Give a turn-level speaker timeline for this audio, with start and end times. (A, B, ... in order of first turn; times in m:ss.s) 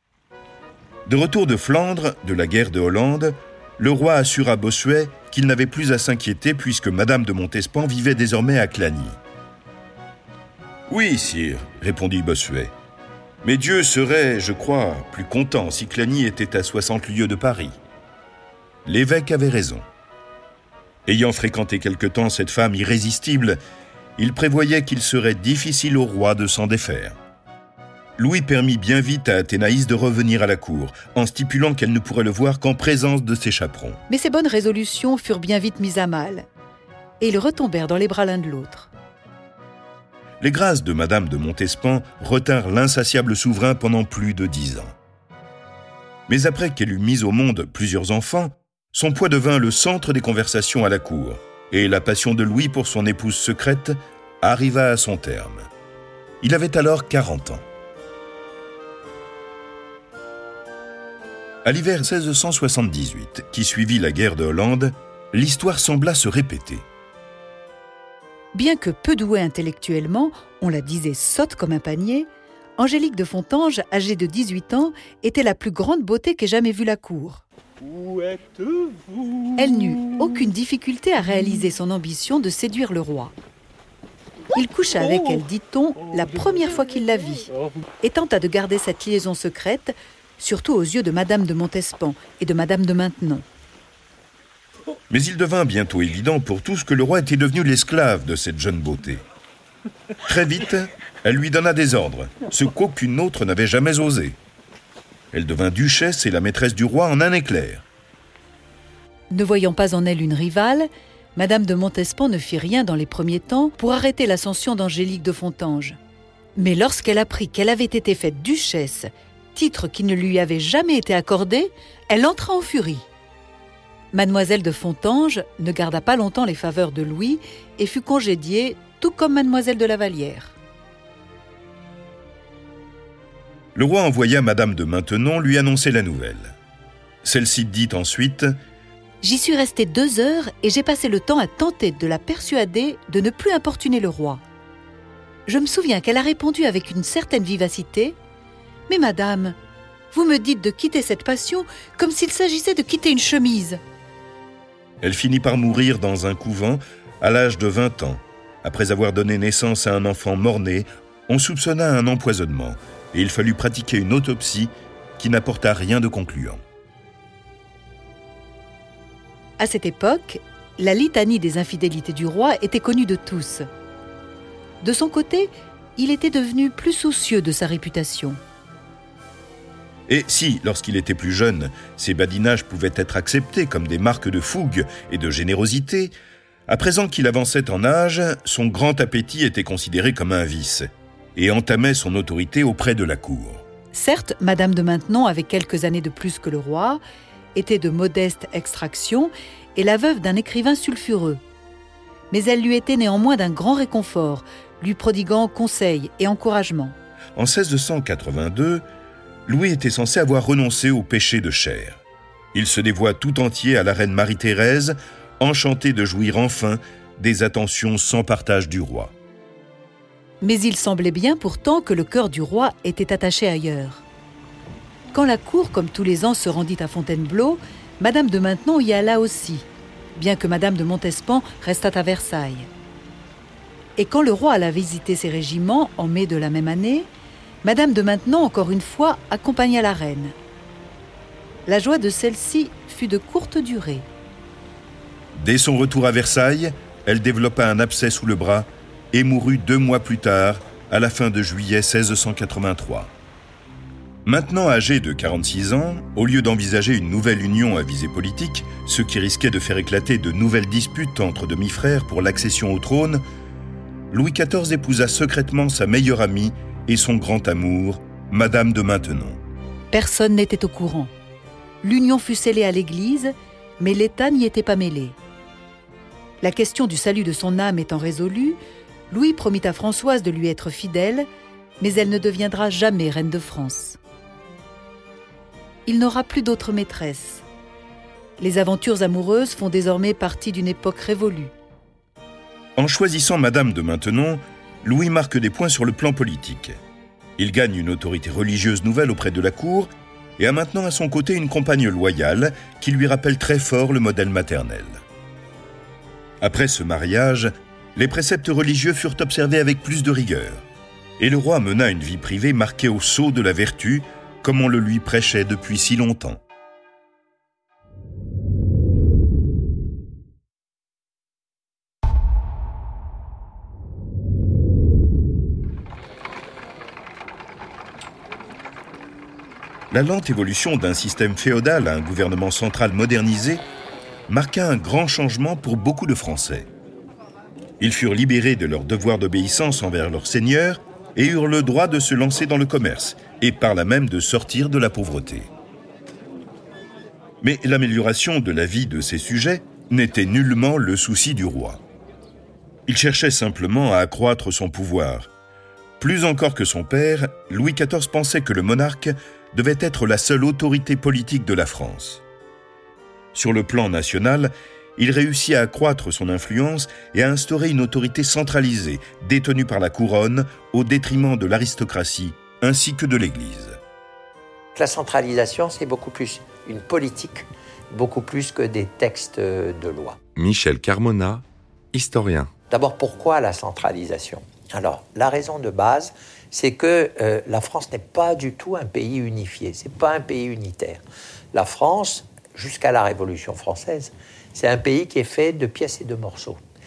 0:01.1-0:09.2 A
0:10.9-0:12.7 A
0:13.4-0:17.8 A
0:18.8-0:19.9 A
0:21.1-0:23.6 A
0:24.2-0:27.2 A
0:28.2-0:34.0 A
0:34.1-0:36.5 B
0:37.2-0:38.9 B
0:40.4-0:45.0 A
0:46.3-0:55.7 A
0:56.4-0:57.7 A
1:01.6-1:06.8 A
1:08.5-1:17.4 B
1:19.5-1:23.3 B
1:24.6-1:27.5 B
1:28.0-1:33.4 B
1:35.1-1:39.2 A
1:40.2-1:44.4 A
1:45.3-1:47.9 A
1:49.3-1:56.0 B
1:56.6-2:03.1 B
2:04.1-2:10.6 B
2:13.8-2:16.6 A
2:17.2-2:18.5 A
2:19.2-2:24.4 B
2:25.5-2:28.2 B
2:28.9-2:29.6 B
2:30.1-2:33.8 B
2:35.0-2:46.6 A
2:49.6-2:53.7 B
2:54.8-2:58.4 B
3:00.1-3:06.1 A
3:06.7-3:13.6 A
3:13.9-3:17.0 B
3:17.6-3:21.4 B
3:22.3-3:27.0 B
3:27.4-3:28.8 A
3:29.5-3:32.0 A
3:32.5-3:39.1 A
3:40.4-3:44.0 B
3:45.1-3:52.7 B
3:54.0-3:57.1 B
3:57.6-4:00.4 B
4:01.7-4:04.1 B
4:05.4-4:13.1 A
4:14.2-4:23.2 A
4:24.1-4:29.4 A
4:29.9-4:31.1 B
4:31.8-4:35.2 B
4:36.4-4:38.6 B
4:39.1-4:41.3 B
4:41.8-4:44.0 B
4:45.9-4:47.4 B
4:48.4-4:51.5 B
4:52.8-4:56.8 A
4:57.4-5:05.0 A
5:06.4-5:10.7 A
5:11.2-5:16.4 A
5:29.9-5:33.6 A
5:34.3-5:36.7 A
5:37.8-5:45.5 A
5:47.4-5:51.8 A
5:52.9-5:55.3 A
5:56.0-6:02.2 A
6:03.3-6:13.8 A
6:14.8-6:20.2 C
6:20.4-6:22.5 D
6:22.7-6:31.0 C
6:31.5-6:36.6 C